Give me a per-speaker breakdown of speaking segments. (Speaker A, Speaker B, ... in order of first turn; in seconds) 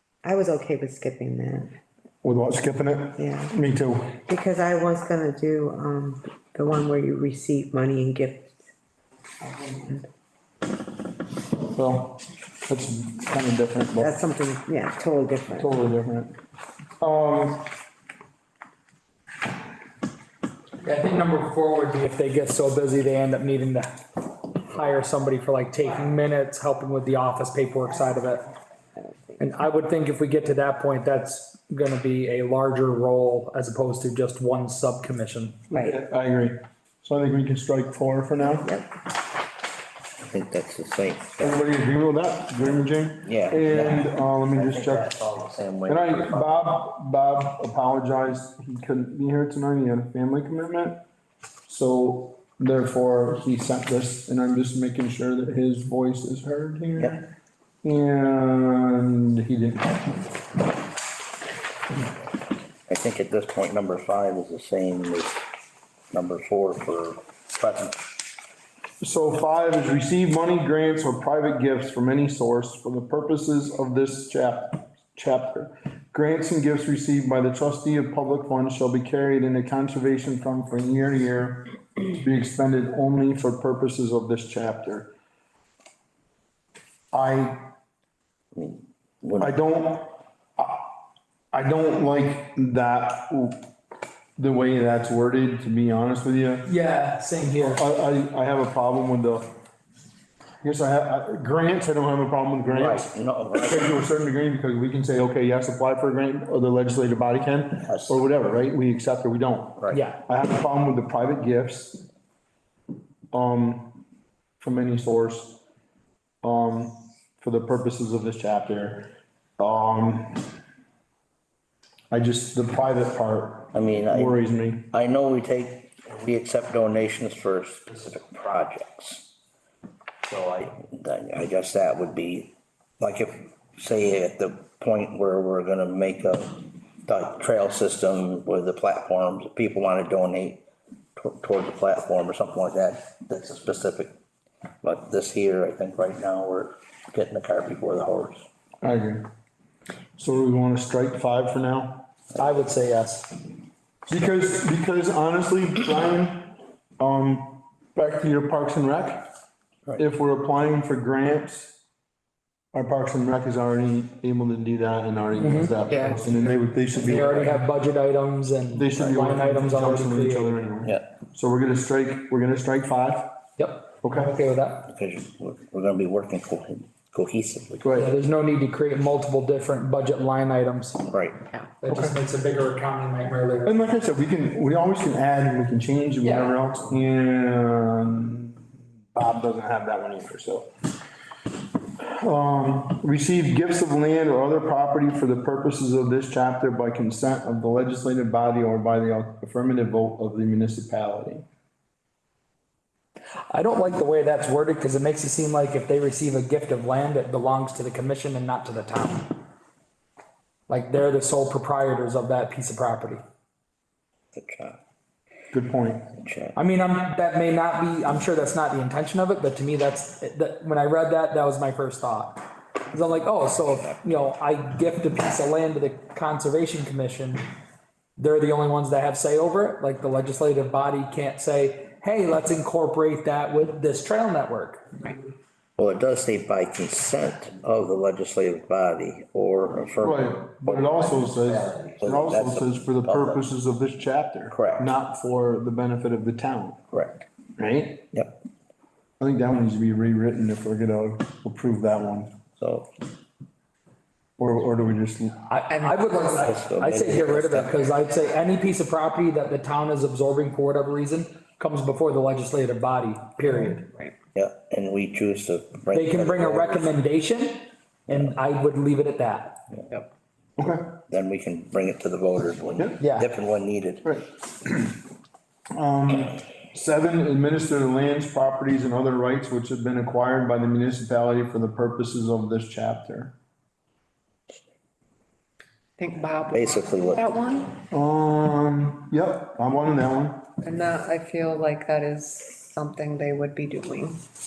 Speaker A: 0.2-1.7, 3.2-3.5, 4.2-8.7, 9.4-10.1, 14.0-15.7, 35.7-36.0
Speaker B: 2.2-4.2, 11.7-14.2, 15.6-16.4, 17.0-17.7, 35.7-38.8, 41.4-45.1, 45.9-51.0, 51.7-57.3, 57.8-60.2, 69.0-85.1, 87.1-87.7, 89.4-90.9, 91.5-93.7, 94.4-96.7, 97.6-99.5, 100.6-112.0, 113.3-113.9, 114.6-115.6, 116.4-120.5, 122.1-124.9, 148.8-149.3, 150.2-152.1, 154.1-159.3, 160.0-161.8, 162.7-167.7, 168.7-173.3, 174.0-174.4, 177.8-178.2, 181.9-182.2, 183.7-188.6, 189.1-190.7, 192.0-201.4, 215.5-216.1, 240.0-246.8, 247.6-248.1, 249.2-252.3, 254.4-255.4, 270.6-271.0, 274.0-275.0, 275.8-283.3, 287.9-290.5
Speaker C: 20.8-28.5, 29.4-35.6, 96.6-97.8, 109.9-110.2, 152.4-153.3, 165.4-165.7, 167.0-170.6, 173.6-174.9, 177.9-181.0, 181.8-183.8, 203.5-209.3, 210.7-213.2, 216.6-222.4, 222.9-227.4, 228.2-235.1, 255.5-263.9, 265.9-269.6, 273.0-273.2
Speaker D: 40.2-41.6, 43.2-46.5, 62.9-65.4, 66.1-68.0, 88.5-89.5, 102.7-104.0, 107.8-108.2, 123.7-124.4, 124.9-129.3, 130.2-140.6, 141.2-144.2, 144.8-148.5, 174.9-177.9, 181.1-181.4, 214.3-214.8, 216.1-216.6, 223.5-224.2, 235.8-243.4, 244.5-244.9, 246.9-247.2, 252.6-252.9, 256.4-257.9, 264.4-266.9, 271.1-274.1, 286.5-287.7
Speaker E: 165.9-166.6, 255.7-256.5, 286.0-287.8, 290.6-294.2